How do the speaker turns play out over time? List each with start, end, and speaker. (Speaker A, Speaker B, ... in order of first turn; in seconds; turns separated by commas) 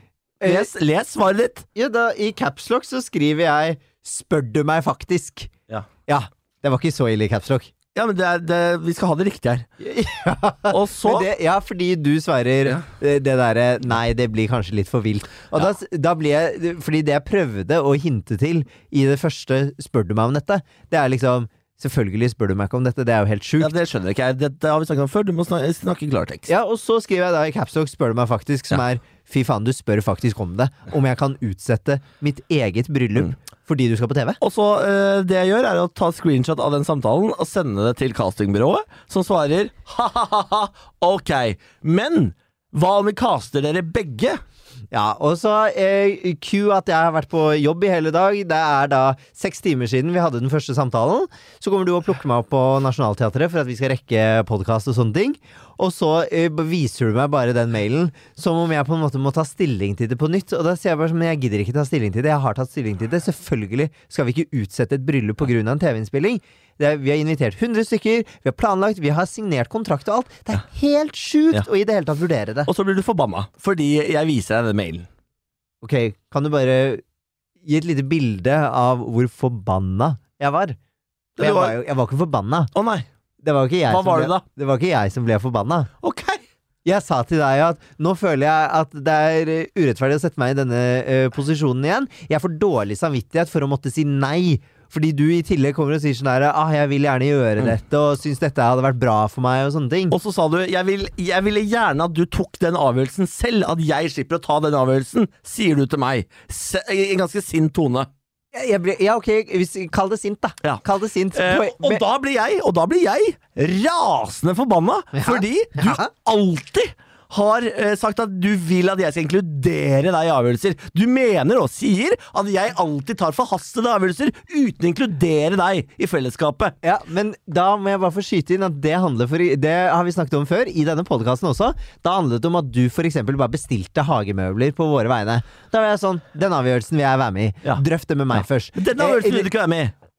Speaker A: 0.4-0.7, Speaker B: 0.4-1.7, Speaker A: 1.8-5.5, Speaker A: 6.1-7.7, Speaker B: 7.9-9.7, Speaker A: 9.8-23.7, Speaker B: 10.7-11.3, Speaker B: 23.6-26.5, Speaker A: 26.5-34.4, Speaker B: 34.4-44.4, Speaker A: 44.9-72.7, Speaker B: 72.7-75.1, Speaker A: 75.8-77.0, Speaker A: 77.7-80.8, Speaker B: 81.4-81.8, Speaker A: 81.4-82.7, Speaker B: 82.8-83.1, Speaker A: 83.4-85.9, Speaker B: 83.9-84.4, Speaker B: 86.0-86.4, Speaker A: 86.8-100.2, Speaker B: 100.1-108.1, Speaker A: 108.5-112.0, Speaker B: 111.3-126.7, Speaker A: 115.2-116.1, Speaker A: 126.8-139.5, Speaker B: 137.6-139.9